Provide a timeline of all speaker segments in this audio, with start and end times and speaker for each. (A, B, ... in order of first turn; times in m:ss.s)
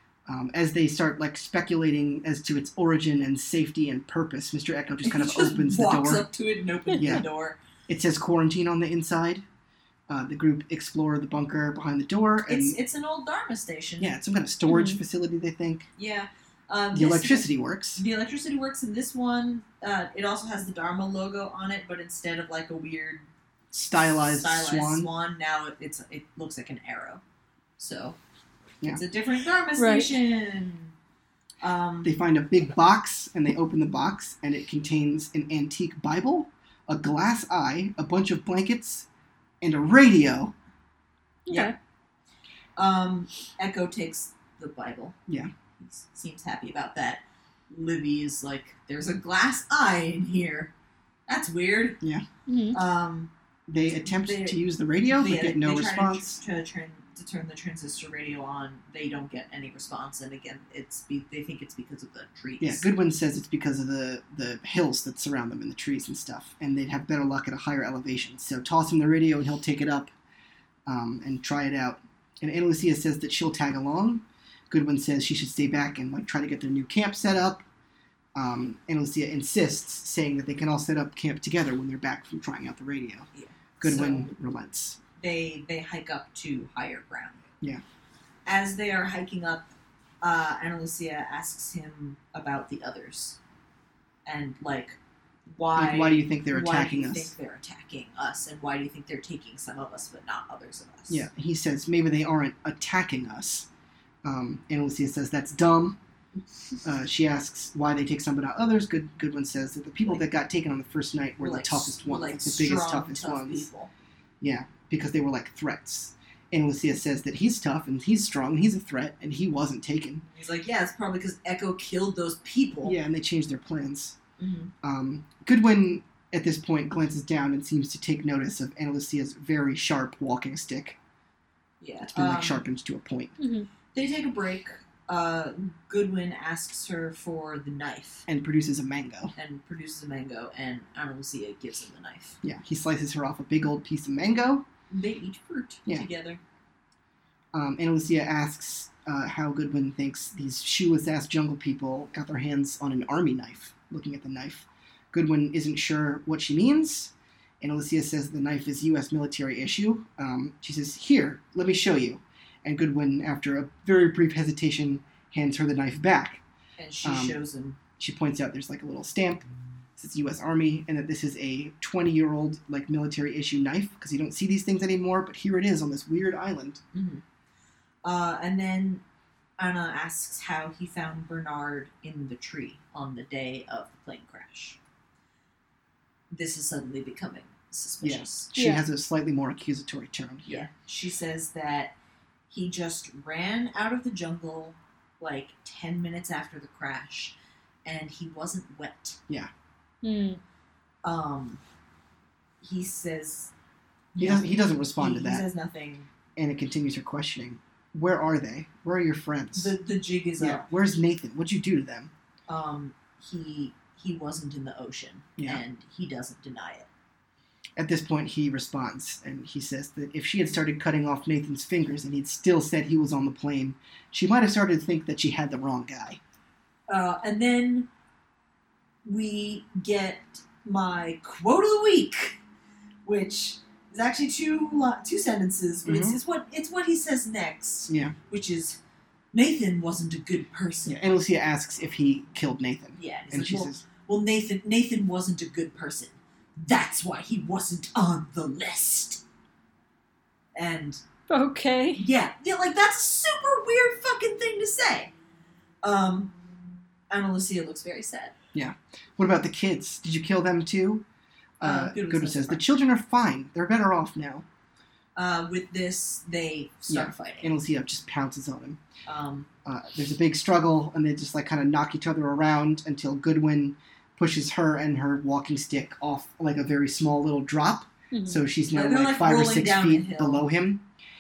0:00.3-0:06.3 A
0:05.0-0:07.6 B
0:06.9-0:07.2 C
0:07.0-0:07.2 A
0:07.9-0:09.4 A
0:10.1-0:12.8 A
0:12.5-0:14.1 B
0:14.0-0:15.9 A
0:14.7-0:15.0 C
0:16.0-0:23.3 B
0:16.9-0:18.0 A
0:23.7-0:25.1 A
0:24.0-0:27.2 B
0:27.8-0:28.2 B
0:28.9-0:30.9 B
0:29.8-0:30.1 C
0:31.6-0:32.1 B
0:32.0-0:39.1 A
0:39.6-0:40.5 A
0:41.4-0:41.7 C
0:41.5-0:41.7 B
0:42.8-0:45.1 B
0:45.8-0:50.7 B
0:51.3-0:52.0 B
0:52.5-0:52.8 C
0:52.7-0:53.3 B
0:53.7-0:56.4 A
0:54.1-1:02.8 B
1:02.6-1:10.1 A
1:10.8-1:17.6 A
1:18.3-1:23.3 A
1:23.3-1:24.3 B
1:23.8-1:25.0 A
1:25.2-1:27.4 B
1:28.4-1:33.4 B
1:34.2-1:35.0 B
1:35.5-1:41.2 B
1:35.8-1:37.3 A
1:41.1-1:43.7 A
1:44.2-1:46.0 A
1:46.8-1:53.7 A
1:51.4-1:53.9 B
1:54.4-2:00.2 A
2:00.3-2:03.0 B
2:02.8-2:04.2 A
2:04.4-2:04.7 B
2:04.8-2:11.0 A
2:11.8-2:12.6 B
2:12.1-2:13.4 A
2:13.4-2:13.7 C
2:13.9-2:18.2 B
2:18.3-2:19.3 A
2:19.3-2:22.4 B
2:22.4-2:24.6 A
2:24.9-2:26.4 B
2:27.5-2:46.4 A
2:46.8-2:47.8 B
2:47.0-2:47.4 A
2:48.0-2:56.8 A
2:56.9-2:57.2 B
2:58.0-2:59.0 B
2:59.6-3:04.8 B
3:06.3-3:08.5 B
3:08.0-3:10.7 A
3:08.6-3:08.8 C
3:10.4-3:11.9 B
3:12.5-3:19.2 B
3:20.0-3:20.4 C
3:21.0-3:21.6 B
3:22.6-3:23.5 B
3:24.1-3:26.1 B
3:24.2-3:25.4 A
3:26.4-3:29.7 A
3:29.5-3:30.7 B
3:30.4-3:32.1 A
3:32.5-3:36.9 B
3:35.4-3:35.6 A
3:37.8-3:46.2 A
3:46.9-3:47.9 B
3:49.0-3:52.4 B
3:53.0-3:58.8 B
3:55.8-3:56.2 A
3:57.9-3:58.1 A
3:59.3-4:01.0 B
4:00.9-4:03.8 A
4:02.9-4:09.2 B
4:10.6-4:11.0 B
4:11.3-4:12.0 C
4:11.9-4:15.1 B
4:15.8-4:16.3 B
4:17.1-4:18.3 B
4:18.5-4:21.0 A
4:21.6-4:24.4 A
4:21.6-4:22.6 B
4:25.2-4:27.5 B
4:26.9-4:28.8 A
4:29.0-4:29.5 B
4:29.6-4:40.8 A
4:38.1-4:38.4 C
4:38.7-4:40.5 B